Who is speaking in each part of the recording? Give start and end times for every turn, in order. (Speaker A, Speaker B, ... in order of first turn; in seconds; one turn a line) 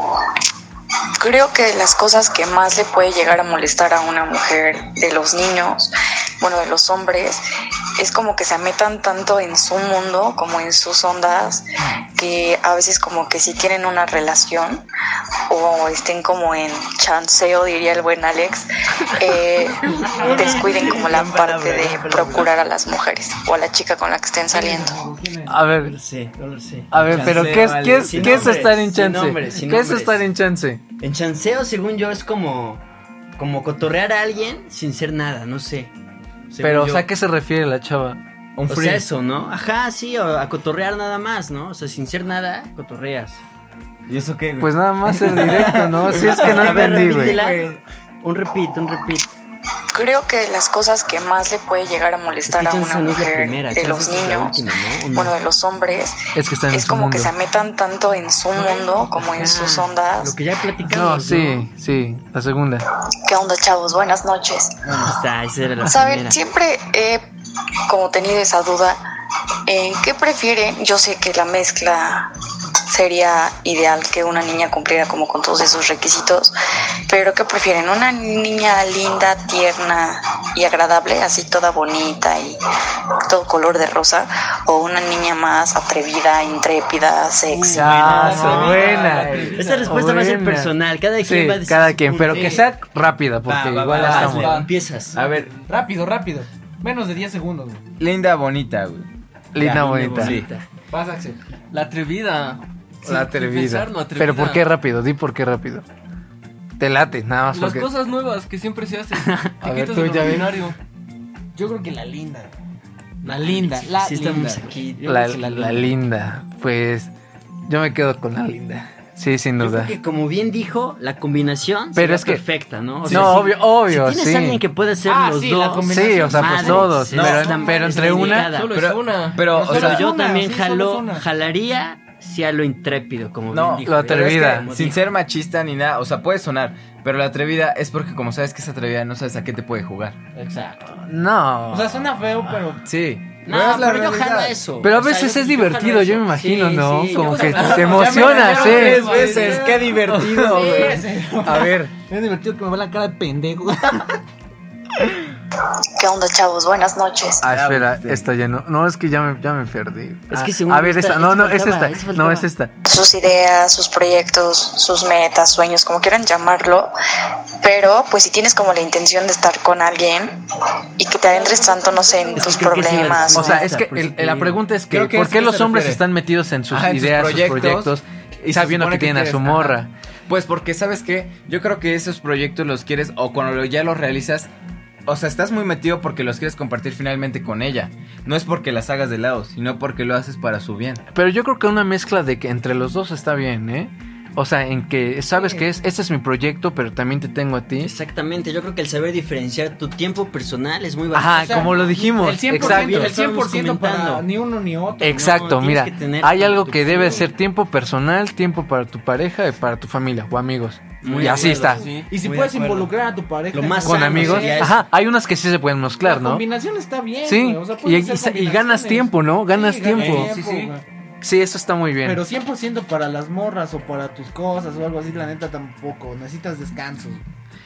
Speaker A: 1.2-7.4
Speaker A: 8.0-11.6
Speaker A: 12.2-14.8
Speaker A: 15.5-25.0
Speaker B: 19.9-20.7
Speaker C: 20.0-22.5
Speaker B: 24.5-25.5
Speaker D: 25.5-25.9
Speaker C: 25.8-30.3
Speaker D: 26.9-30.8
Speaker E: 27.2-28.7
Speaker C: 31.0-32.8
Speaker C: 33.4-35.9
Speaker C: 36.5-37.1
Speaker D: 36.6-38.2
Speaker E: 38.6-39.0
Speaker C: 38.7-43.4
Speaker E: 44.1-47.8
Speaker D: 44.6-47.4
Speaker C: 46.2-49.3
Speaker A: 49.9-56.2
Speaker C: 52.5-55.3
Speaker D: 56.3-57.3
Speaker A: 56.7-60.4
Speaker C: 59.2-61.7
Speaker D: 60.9-62.8
Speaker A: 63.2-65.0
Speaker C: 64.8-66.4
Speaker A: 65.8-67.2
Speaker A: 67.9-69.0
Speaker A: 69.7-72.3
Speaker A: 72.9-76.5
Speaker A: 77.1-82.6
Speaker A: 83.3-88.3
Speaker C: 87.6-92.7
Speaker D: 87.7-94.6
Speaker B: 88.4-89.9
Speaker E: 88.4-89.7
Speaker B: 92.3-92.6
Speaker C: 93.5-95.2
Speaker E: 93.9-95.5
Speaker B: 95.6-97.8
Speaker E: 98.0-99.1
Speaker D: 99.5-100.4
Speaker C: 99.6-100.6
Speaker E: 100.2-100.5
Speaker B: 100.9-101.4
Speaker F: 101.7-104.7
Speaker D: 103.0-105.8
Speaker D: 106.8-107.9
Speaker F: 107.5-110.8
Speaker C: 109.2-109.5
Speaker D: 109.6-110.5
Speaker B: 111.5-112.5
Speaker C: 113.2-115.8
Speaker B: 113.2-115.8
Speaker D: 115.0-117.1
Speaker D: 117.7-119.9
Speaker C: 119.6-128.9
Speaker D: 121.9-122.4
Speaker D: 123.0-124.6
Speaker B: 125.0-128.2
Speaker D: 125.9-128.5
Speaker E: 127.1-127.5
Speaker F: 128.1-129.5
Speaker E: 128.6-130.1
Speaker B: 129.5-131.2
Speaker C: 129.6-135.0
Speaker E: 133.5-140.2
Speaker D: 133.9-134.7
Speaker B: 140.3-140.9
Speaker D: 141.0-142.0
Speaker B: 141.7-142.8
Speaker E: 142.8-144.6
Speaker C: 143.4-149.5
Speaker D: 144.8-149.2
Speaker F: 147.1-149.5
Speaker B: 147.8-154.2
Speaker E: 148.5-151.0
Speaker D: 150.1-150.6
Speaker D: 151.4-151.9
Speaker A: 156.0-157.4
Speaker E: 157.4-158.2
Speaker D: 157.4-162.7
Speaker C: 160.3-162.5
Speaker A: 162.8-166.9
Speaker A: 167.6-170.3
Speaker A: 171.0-173.6
Speaker C: 171.4-174.6
Speaker B: 172.8-173.1
Speaker D: 173.3-179.9
Speaker E: 174.9-176.0
Speaker E: 176.7-179.8
Speaker E: 180.3-184.5
Speaker E: 185.1-191.0
Speaker D: 191.1-197.9
Speaker B: 195.3-195.7
Speaker C: 197.8-204.2
Speaker D: 201.1-203.1
Speaker B: 201.4-205.1
Speaker D: 205.0-211.8
Speaker C: 205.0-207.3
Speaker C: 211.0-212.9
Speaker F: 211.1-212.1
Speaker B: 211.4-214.7
Speaker C: 213.5-214.8
Speaker D: 213.8-216.4
Speaker B: 216.0-220.8
Speaker D: 217.3-220.3
Speaker F: 219.9-220.8
Speaker D: 221.2-222.2
Speaker B: 222.0-227.2